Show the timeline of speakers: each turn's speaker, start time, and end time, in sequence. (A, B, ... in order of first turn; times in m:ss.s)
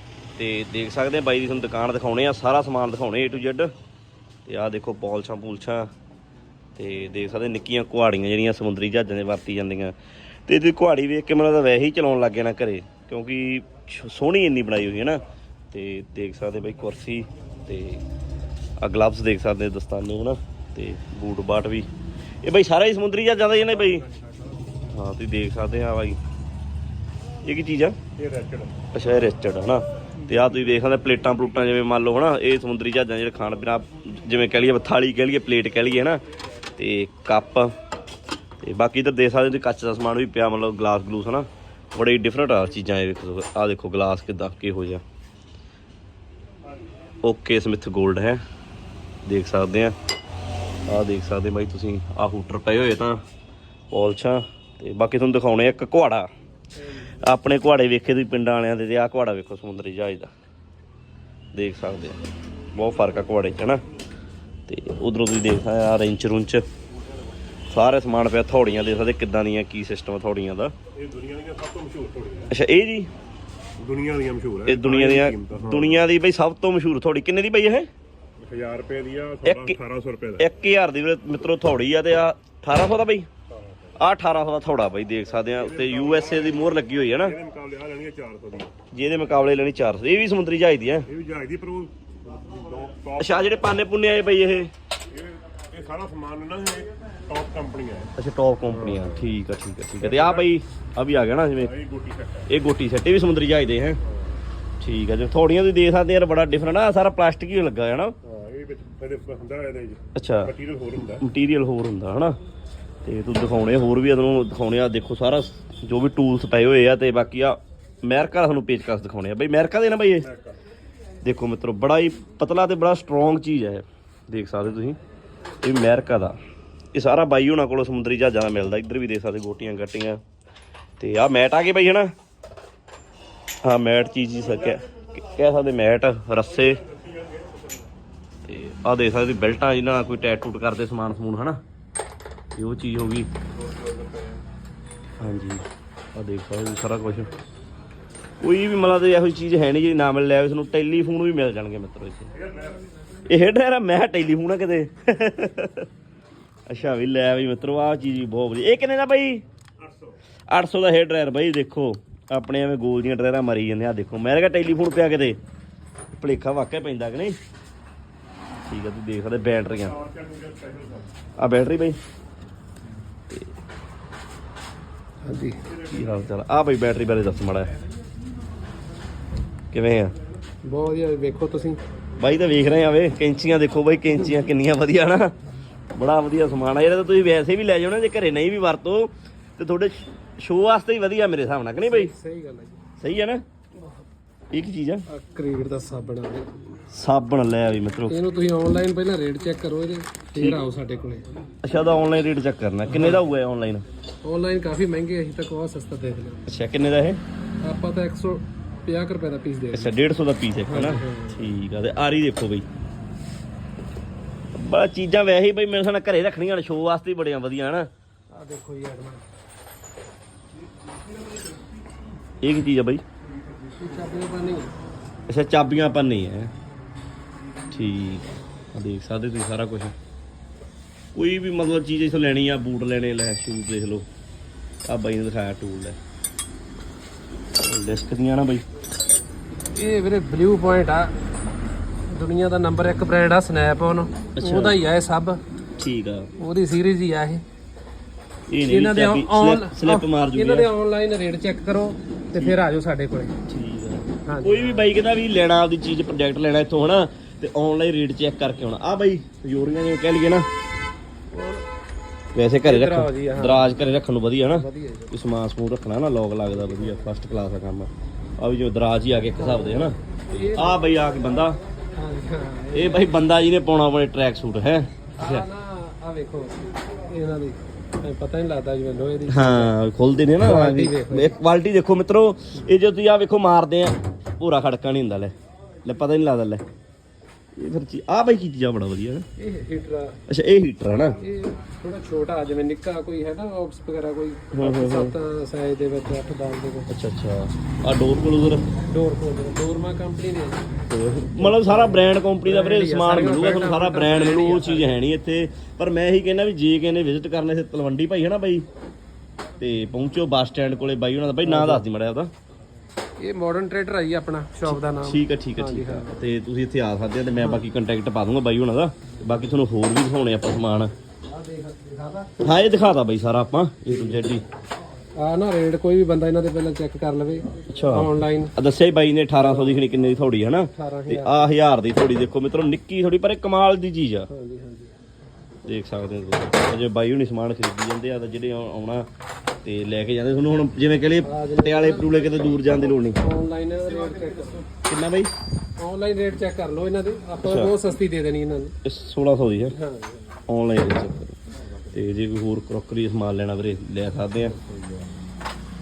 0:00.4-0:03.7 A
0:04.4-0:05.9 A
0:06.8-0:09.9 A
0:10.4-0:18.0 A
0:18.8-0:21.9 A
0:22.4-0:24.1 A
0:24.0-0:24.7 B
0:24.9-0:26.2 A
0:27.4-0:28.0 A
0:28.2-0:28.8 B
0:28.9-0:36.2 A
0:36.8-0:37.7 A
0:38.6-0:45.0 A
0:47.2-0:48.4 A
0:49.2-0:49.9 A
0:50.9-0:53.2 A
0:53.9-0:56.3 A
0:57.0-1:00.3 A
1:01.5-1:03.8 A
1:04.7-1:06.6 A
1:07.7-1:10.7 A
1:10.9-1:12.5 B
1:12.5-1:13.1 A
1:13.8-1:16.0 B
1:14.7-1:17.9 A
1:18.4-1:20.4 B
1:19.4-1:19.8 A
1:20.4-1:23.3 A
1:23.5-1:23.8 B
1:24.0-1:27.4 A
1:25.5-1:28.7 B
1:28.9-1:31.1 A
1:31.1-1:33.6 B
1:33.2-1:34.7 A
1:35.5-1:38.1 B
1:38.2-1:41.7 A
1:38.7-1:39.1 B
1:40.0-1:40.5 B
1:41.6-1:42.5 B
1:42.5-1:44.0 A
1:44.0-1:44.4 B
1:44.8-1:48.1 A
1:48.2-1:51.2 B
1:50.1-1:50.5 A
1:51.2-1:52.4 A
1:53.0-2:00.3 A
2:00.2-2:00.6 B
2:01.2-2:05.0 A
2:05.6-2:06.4 A
2:06.9-2:10.2 A
2:11.0-2:12.1 A
2:13.6-2:16.8 A
2:16.9-2:17.7 B
2:18.4-2:21.6 A
2:22.6-2:23.3 A
2:23.5-2:24.4 B
2:25.2-2:27.3 A
2:28.4-2:32.3 A
2:32.4-2:32.8 B
2:33.3-2:35.9 A
2:36.7-2:39.4 A
2:39.8-2:40.2 B
2:40.5-2:45.4 A
2:46.1-2:47.4 A
2:48.6-2:50.0 A
2:49.9-2:51.1 B
2:51.4-2:52.0 A
2:55.2-2:55.6 C
2:55.7-2:57.7 A
2:59.7-3:00.1 A
3:00.6-3:01.8 C
3:02.2-3:05.4 A
3:05.9-3:12.1 A
3:11.8-3:12.8 C
3:13.0-3:13.4 A
3:14.5-3:15.0 A
3:15.1-3:16.5 C
3:16.9-3:18.2 A
3:18.1-3:21.2 C
3:20.4-3:20.6 A
3:21.6-3:23.8 A
3:22.9-3:23.2 C
3:24.2-3:26.4 C
3:26.5-3:27.2 A
3:27.6-3:29.9 C
3:29.7-3:32.7 A
3:30.6-3:31.5 C
3:34.5-3:37.9 A
3:38.3-3:39.2 C
3:42.4-3:43.0 A
3:43.8-3:44.7 C
3:45.3-3:46.5 A
3:47.7-3:49.9 A
3:51.1-3:54.1 A
3:54.8-3:56.0 A
3:57.6-3:58.6 A
3:59.7-4:01.1 C
4:02.1-4:05.4 C
4:04.4-4:04.8 A
4:05.8-4:06.3 A
4:06.4-4:07.4 C
4:08.5-4:10.7 A
4:08.7-4:13.4 C
4:12.3-4:12.6 A
4:13.5-4:20.5 A
4:14.2-4:14.9 C
4:21.3-4:21.6 C
4:22.3-4:31.6 A
4:22.6-4:23.8 C
4:24.5-4:25.1 C
4:29.3-4:30.8 C
4:32.0-4:33.2 C
4:32.7-4:35.4 A
4:35.2-4:39.7 C
4:39.3-4:46.6 A
4:40.4-4:41.4 C
4:47.6-4:49.2 A
4:49.4-4:50.2 C
4:50.3-4:51.2 A
4:51.2-4:56.9 C
4:54.5-4:55.1 A
4:56.9-4:58.6 A
4:58.8-5:05.0 C
5:00.9-5:08.6 A
5:09.6-5:12.3 A
5:11.4-5:11.8 C
5:13.2-5:16.2 C
5:14.6-5:20.9 A
5:21.2-5:22.4 C
5:22.4-5:24.4 A
5:23.9-5:24.2 C
5:25.2-5:28.5 C
5:27.7-5:34.3 A
5:29.4-5:29.8 C
5:30.7-5:31.5 C
5:34.3-5:34.9 C
5:35.6-5:39.1 A
5:39.6-5:43.2 A
5:41.2-5:44.7 C
5:44.8-5:45.3 A
5:45.8-5:48.7 C
5:47.4-5:47.7 A
5:48.8-5:49.8 A
5:49.7-5:50.3 C
5:50.5-5:51.4 A
5:51.9-5:54.6 A
5:54.6-5:55.0 C